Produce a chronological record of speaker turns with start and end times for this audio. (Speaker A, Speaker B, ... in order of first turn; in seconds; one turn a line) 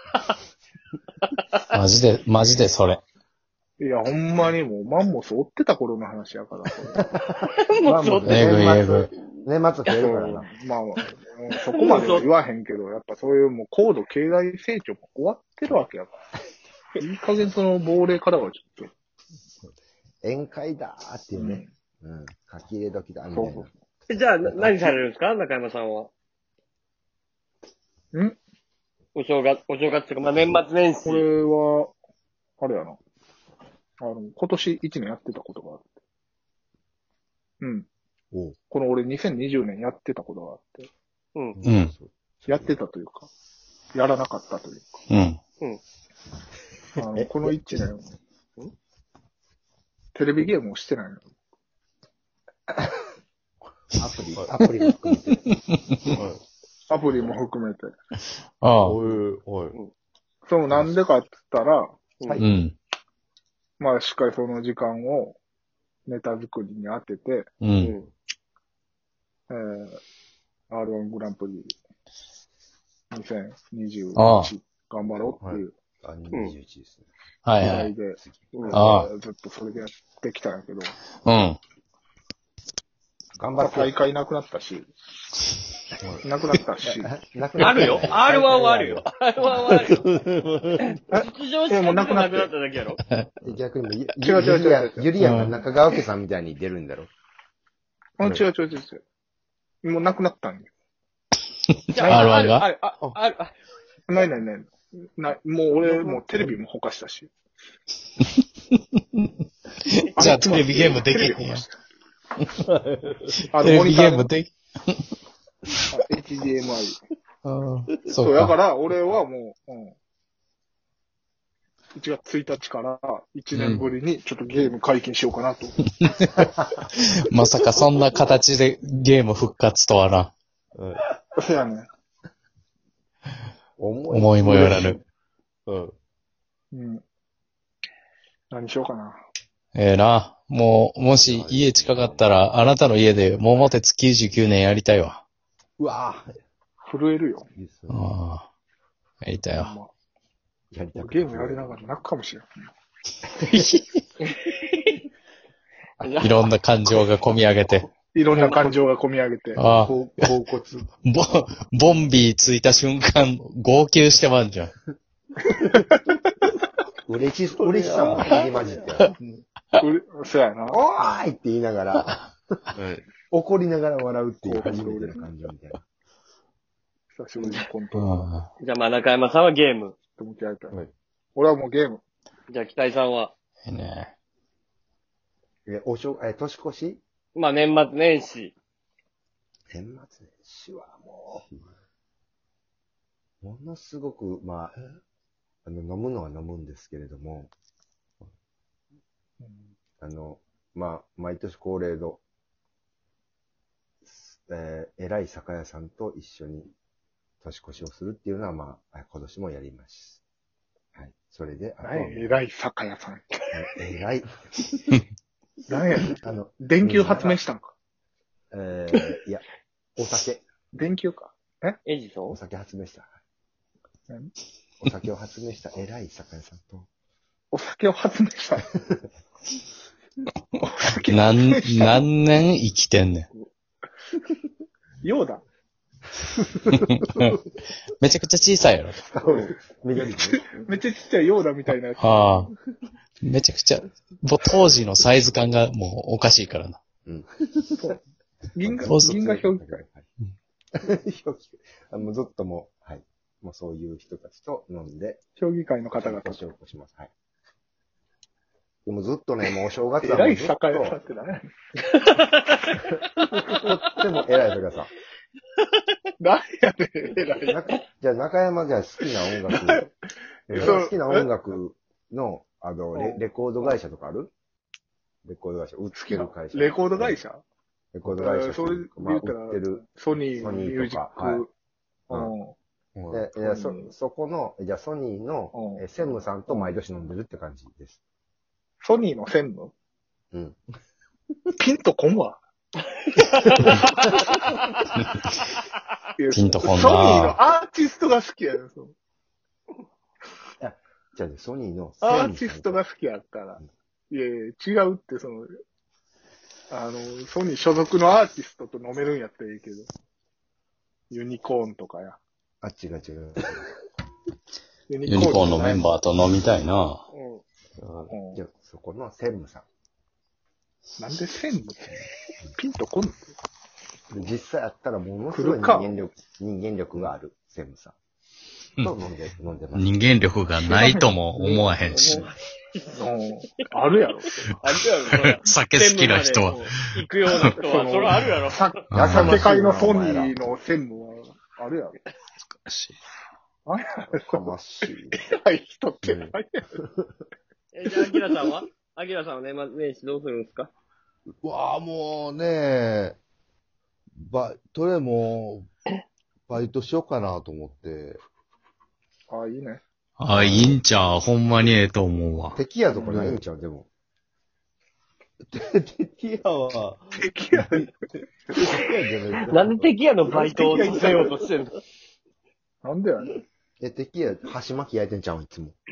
Speaker A: 1.7-3.0
Speaker B: 3.8-7.0
Speaker C: 7.0-10.5
Speaker D: 7.6-8.4
Speaker A: 8.2-9.1
Speaker B: 9.9-16.1
Speaker D: 11.7-12.2
Speaker B: 17.0-18.9
Speaker C: 20.2-23.7
Speaker B: 21.4-21.7
Speaker B: 23.3-23.7
Speaker D: 24.1-26.1
Speaker C: 24.4-24.9
Speaker D: 29.1-31.3
Speaker B: 31.0-31.9
Speaker B: 32.6-33.0
Speaker B: 34.0-35.9
Speaker B: 37.6-37.9
Speaker B: 38.7-40.9
Speaker E: 41.6-41.9
Speaker A: 41.6-41.9
Speaker C: 41.9-42.7
Speaker B: 42.5-43.3
Speaker B: 43.9-45.0
Speaker A: 45.1-45.4
Speaker B: 47.0-48.1
Speaker C: 47.1-47.8
Speaker B: 50.1-51.3
Speaker C: 54.0-55.5
Speaker A: 55.5-56.1
Speaker E: 56.1-56.4
Speaker B: 56.9-57.9
Speaker A: 58.6-59.0
Speaker E: 58.8-59.8
Speaker B: 60.4-62.1
Speaker A: 62.4-62.8
Speaker B: 63.8-65.4
Speaker B: 66.1-67.6
Speaker A: 67.6-68.0
Speaker B: 69.5-70.0
Speaker B: 70.7-71.8
Speaker B: 73.1-75.8
Speaker A: 74.2-74.5
Speaker C: 76.0-77.1
Speaker A: 77.5-77.9
Speaker B: 77.6-80.9
Speaker C: 78.2-78.5
Speaker D: 78.5-78.8
Speaker A: 78.7-79.1
Speaker A: 81.3-81.6
Speaker C: 83.4-83.9
Speaker B: 83.6-84.9
Speaker E: 86.0-86.2
Speaker B: 86.2-87.1
Speaker C: 86.8-89.0
Speaker D: 87.6-90.0
Speaker E: 89.6-90.9
Speaker B: 91.1-92.5
Speaker D: 91.2-93.0
Speaker C: 93.4-97.1
Speaker B: 94.2-95.1
Speaker A: 95.2-95.6
Speaker B: 98.2-99.0
Speaker B: 99.8-100.7
Speaker D: 101.9-103.5
Speaker B: 102.0-102.4
Speaker A: 102.0-102.7
Speaker B: 104.1-107.3
Speaker A: 108.7-109.3
Speaker A: 109.9-111.6
Speaker B: 110.2-111.8
Speaker E: 112.7-113.3
Speaker A: 113.4-115.0
Speaker B: 113.5-114.3
Speaker B: 115.9-117.0
Speaker A: 117.4-118.5
Speaker B: 118.1-120.0
Speaker B: 121.9-125.8
Speaker A: 123.5-123.9
Speaker A: 126.0-130.3
Speaker E: 130.8-131.0
Speaker B: 131.4-131.9
Speaker C: 133.8-135.0
Speaker A: 134.1-135.0
Speaker E: 135.7-135.9
Speaker B: 136.7-137.0
Speaker B: 138.5-139.2
Speaker A: 139.8-145.2
Speaker E: 141.1-142.3
Speaker E: 145.8-146.4
Speaker B: 146.8-147.5
Speaker E: 147.6-148.1
Speaker A: 147.9-148.5
Speaker A: 149.2-149.8
Speaker B: 149.6-149.9
Speaker C: 150.7-151.8
Speaker B: 151.0-152.5
Speaker A: 153.4-153.8
Speaker D: 154.2-154.9
Speaker D: 156.0-156.4
Speaker A: 156.2-157.9
Speaker B: 158.1-159.6
Speaker A: 159.6-160.3
Speaker C: 159.7-160.9
Speaker A: 161.1-164.7
Speaker B: 165.5-166.3
Speaker C: 167.1-169.1
Speaker E: 167.6-169.4
Speaker B: 169.8-170.8
Speaker C: 170.7-172.3
Speaker E: 172.8-173.1
Speaker C: 173.3-175.8
Speaker B: 174.4-175.2
Speaker B: 177.1-178.4
Speaker A: 177.9-178.5
Speaker D: 178.6-180.0
Speaker B: 180.1-180.8
Speaker B: 181.3-182.0
Speaker D: 182.5-183.3
Speaker A: 183.7-184.1
Speaker C: 185.7-187.0
Speaker D: 187.3-188.5
Speaker C: 189.7-191.4
Speaker C: 193.4-194.8
Speaker C: 195.7-197.5
Speaker B: 199.4-199.7
Speaker C: 200.0-202.2
Speaker C: 204.1-206.7
Speaker C: 207.4-210.2
Speaker C: 211.0-212.3
Speaker B: 211.8-213.5
Speaker C: 213.5-214.8
Speaker B: 215.7-217.7
Speaker C: 216.1-217.4
Speaker C: 218.5-219.4
Speaker C: 220.0-220.5
Speaker B: 220.7-221.8
Speaker D: 221.9-222.4
Speaker C: 222.3-223.1
Speaker C: 224.8-226.9
Speaker B: 227.5-228.7
Speaker B: 230.6-232.1
Speaker A: 231.1-233.3
Speaker B: 235.0-235.4
Speaker A: 236.7-237.4
Speaker A: 238.0-239.0
Speaker C: 239.0-240.5
Speaker B: 239.2-239.5
Speaker B: 240.2-242.5
Speaker A: 242.0-242.5
Speaker A: 243.2-246.8
Speaker C: 247.1-247.3
Speaker B: 248.6-249.8
Speaker C: 248.6-250.1
Speaker A: 248.8-249.2
Speaker C: 250.8-255.2
Speaker B: 255.4-256.4
Speaker C: 256.0-257.1
Speaker C: 258.9-261.0
Speaker B: 260.0-261.5
Speaker D: 261.9-262.7
Speaker C: 263.0-264.9
Speaker B: 266.2-267.7
Speaker C: 267.4-269.9
Speaker B: 269.5-269.9
Speaker C: 270.5-274.3
Speaker B: 270.5-271.3
Speaker B: 272.9-273.8
Speaker C: 275.2-277.2
Speaker B: 275.9-277.4
Speaker C: 277.9-279.8
Speaker B: 278.1-281.5
Speaker C: 280.4-281.4
Speaker B: 282.1-282.6
Speaker E: 283.0-283.2
Speaker C: 283.1-288.0
Speaker B: 283.4-283.9
Speaker B: 285.5-285.9
Speaker B: 288.8-289.7
Speaker C: 290.3-290.6
Speaker B: 291.6-292.4
Speaker D: 293.2-294.6
Speaker C: 293.6-294.1
Speaker A: 295.0-295.3
Speaker B: 296.2-298.9
Speaker A: 296.3-297.4
Speaker C: 300.6-302.8
Speaker B: 302.0-305.5
Speaker B: 306.7-309.9
Speaker B: 311.1-312.2
Speaker C: 312.6-313.7
Speaker B: 314.9-315.9
Speaker A: 315.1-317.0
Speaker D: 317.1-317.4
Speaker E: 317.8-318.1
Speaker B: 318.1-318.4
Speaker C: 318.4-319.6
Speaker B: 321.0-322.0
Speaker B: 322.6-323.4
Speaker C: 324.1-327.9
Speaker B: 325.3-326.0
Speaker C: 328.8-329.9
Speaker A: 329.7-332.3
Speaker B: 330.6-331.8
Speaker D: 331.9-332.9
Speaker B: 332.9-334.5
Speaker D: 334.6-338.8
Speaker A: 335.1-337.5
Speaker B: 336.5-342.0
Speaker A: 338.9-339.4
Speaker C: 338.9-340.4
Speaker A: 342.5-343.0
Speaker B: 343.7-344.4
Speaker C: 344.1-345.2
Speaker B: 345.1-346.8
Speaker E: 346.0-346.4
Speaker D: 347.7-350.7
Speaker E: 351.4-353.2
Speaker E: 354.2-355.7
Speaker E: 356.5-358.2
Speaker B: 359.3-359.8
Speaker A: 360.2-362.6
Speaker E: 360.3-360.8
Speaker C: 362.5-363.9
Speaker B: 362.9-363.3
Speaker E: 363.0-363.4
Speaker E: 365.5-367.9
Speaker B: 367.1-367.9
Speaker E: 368.5-369.6
Speaker C: 368.5-369.9
Speaker D: 369.5-371.8
Speaker B: 370.3-371.2
Speaker B: 372.8-373.4
Speaker C: 373.8-375.8